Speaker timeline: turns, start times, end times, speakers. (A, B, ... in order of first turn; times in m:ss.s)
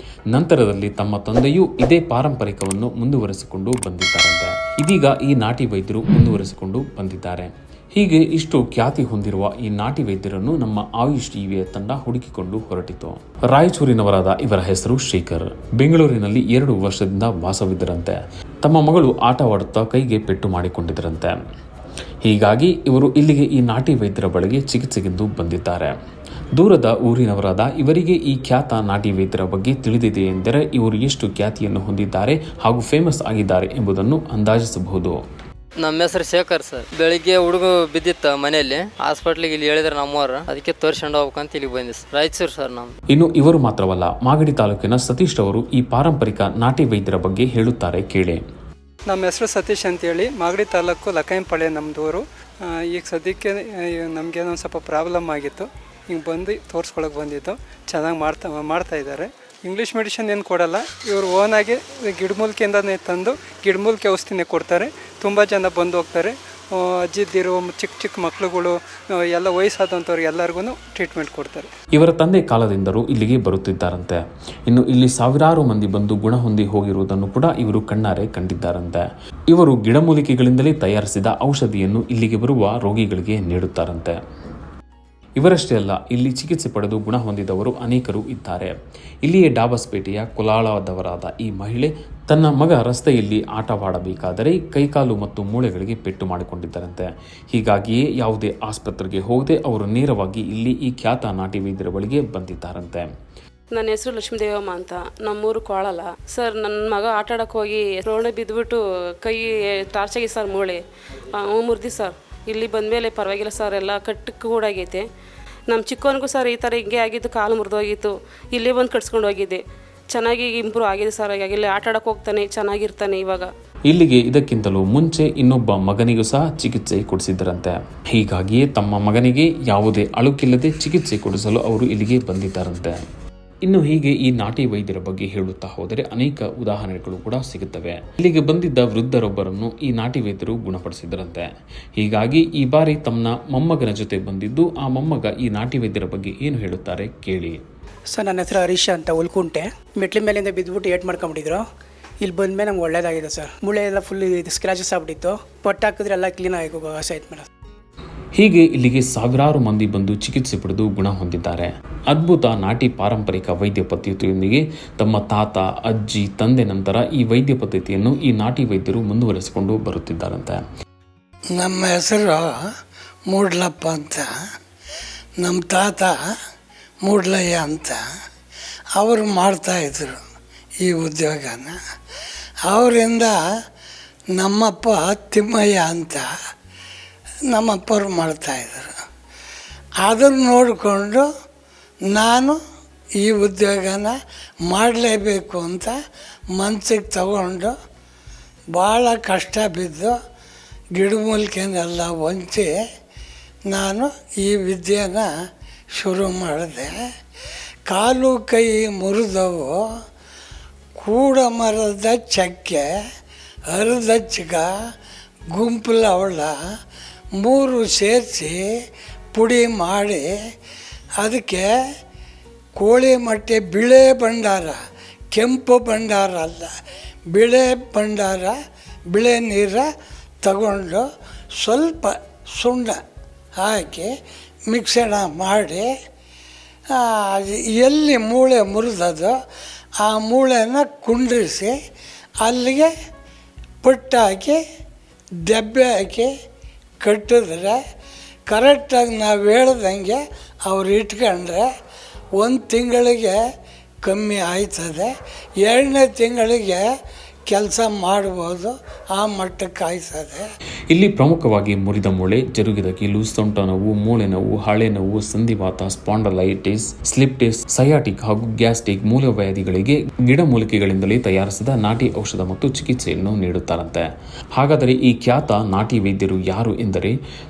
0:00.3-0:21.4 A
0:22.2-0:25.9 A
0:26.6-0:35.2 A
0:35.8-0:42.9 B
0:43.1-0:48.4 A
0:49.1-1:11.7 C
1:12.0-1:24.2 A
1:25.4-1:28.7 A
1:29.2-1:43.1 A
1:43.7-1:55.0 D
1:55.7-1:59.6 D
2:00.1-2:03.5 D
2:03.9-2:13.0 A
2:13.6-2:27.6 A
2:28.1-2:31.6 E
2:32.2-2:37.4 E
2:38.4-2:50.6 A
2:51.6-2:52.4 F
2:53.3-2:54.3 F
2:55.4-2:56.1 F
2:57.1-2:58.0 F
2:59.0-3:00.2 F
3:00.8-3:01.8 F
3:02.7-3:03.4 F
3:04.4-3:06.3 F
3:07.5-3:08.9 F
3:10.0-3:11.3 F
3:12.1-3:12.6 F
3:13.2-3:14.1 F
3:14.7-3:15.9 F
3:16.6-3:17.8 F
3:18.8-3:20.2 F
3:21.0-3:22.7 F
3:23.7-3:25.3 F
3:26.0-3:27.0 F
3:27.9-3:29.7 F
3:31.0-3:32.8 F
3:33.7-3:34.7 F
3:35.5-3:36.5 F
3:37.4-3:38.6 F
3:39.4-3:40.2 F
3:41.2-3:41.6 F
3:42.8-3:44.8 F
3:45.3-3:46.7 F
3:47.3-3:48.6 F
3:49.1-3:49.8 F
3:50.4-3:51.0 F
3:51.6-3:53.0 F
3:53.6-3:54.1 F
3:54.7-3:55.9 F
3:56.9-3:59.3 F
4:00.0-4:01.7 F
4:02.4-4:02.9 F
4:03.8-4:04.6 F
4:05.5-4:06.3 F
4:07.0-4:07.8 F
4:08.5-4:11.6 F
4:12.4-4:13.3 F
4:14.1-4:15.1 F
4:15.6-4:16.8 F
4:17.5-4:20.4 F
4:20.9-4:34.0 A
4:34.6-4:37.2 A